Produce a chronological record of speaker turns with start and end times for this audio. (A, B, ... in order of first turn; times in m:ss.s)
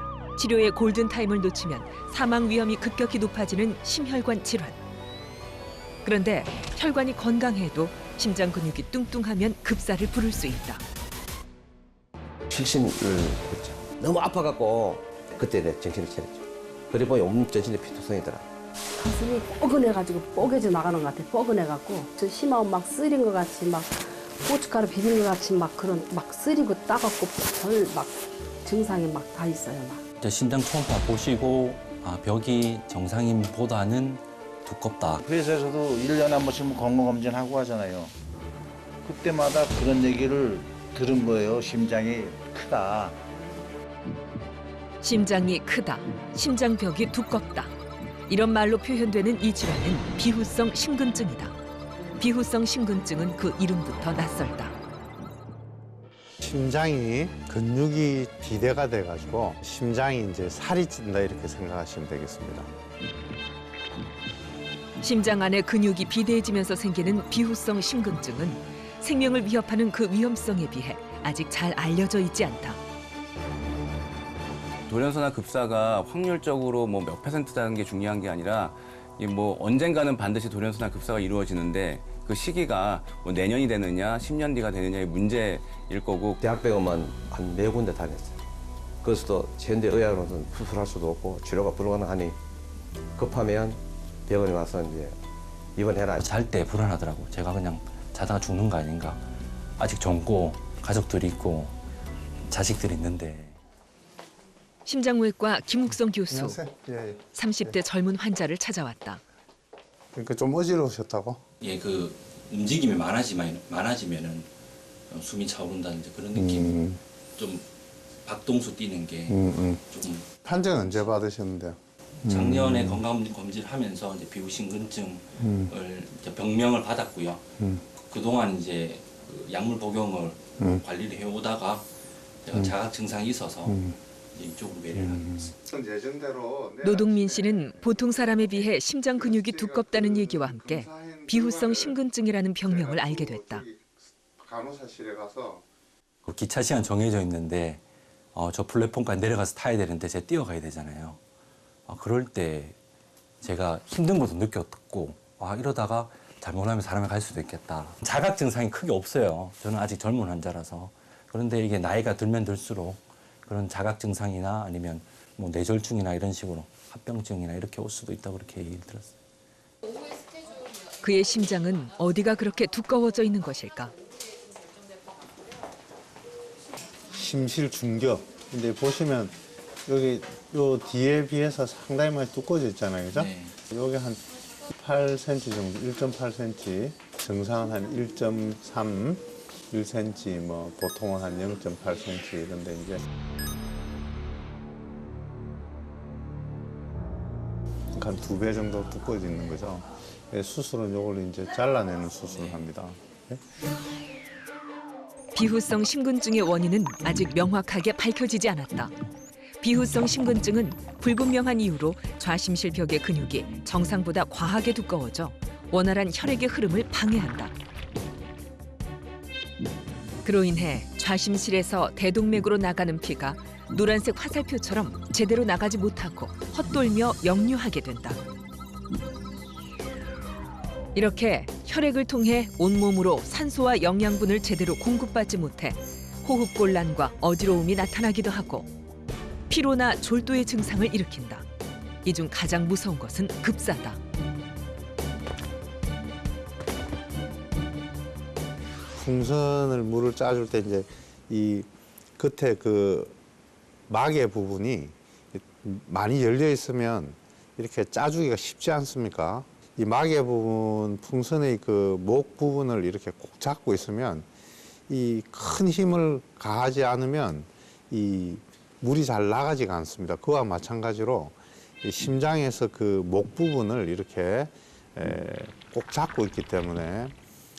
0:00.4-0:04.8 A
0:06.0-0:10.8 A
0:12.5-0:18.4 B
0:19.0-0:30.0 C
0:30.2-0:35.2 D
0:35.2-0:38.1 E
0:39.0-0:43.2 E
0:45.0-0:47.7 A
0:48.3-0:51.6 A
0:52.2-0:54.7 A
0:56.4-1:02.7 F
1:05.0-1:12.8 A
1:14.9-1:26.4 G
1:26.4-1:28.4 B
1:29.0-1:32.4 B
1:33.2-1:35.2 B
1:35.8-1:36.3 B
1:36.1-1:39.2 D
1:39.8-1:41.7 D
1:42.4-1:43.6 D
1:44.8-1:46.6 A
1:46.3-1:47.7 F
1:47.3-1:49.2 A
1:50.1-1:51.4 F
1:51.6-1:54.5 D
1:55.1-1:57.6 D
1:56.4-1:57.0 F
1:58.2-2:00.3 D
1:59.3-1:59.8 F
2:00.4-2:01.8 F
2:00.8-2:01.1 D
2:02.2-2:11.8 D
2:02.3-2:03.0 F
2:05.4-2:05.7 F
2:12.4-2:15.5 D
2:13.7-2:13.9 F
2:15.2-2:22.0 F
2:16.8-2:23.6 A
2:22.6-2:25.6 F
2:26.2-2:27.8 D
2:28.3-2:31.2 D
2:31.9-2:32.8 D
2:33.4-2:49.1 D
2:51.0-2:53.9 A
2:57.1-3:04.2 F
3:03.1-3:03.5 D
3:04.7-3:13.0 F
3:17.9-3:23.4 F
3:22.2-3:22.6 D
3:25.3-3:28.9 A
3:29.6-3:37.5 A
3:40.2-3:48.2 A
3:50.9-3:58.7 A
3:59.5-4:01.4 A
4:02.0-4:04.0 A
4:08.9-4:13.2 F
4:13.9-4:24.3 F
4:24.9-4:37.1 F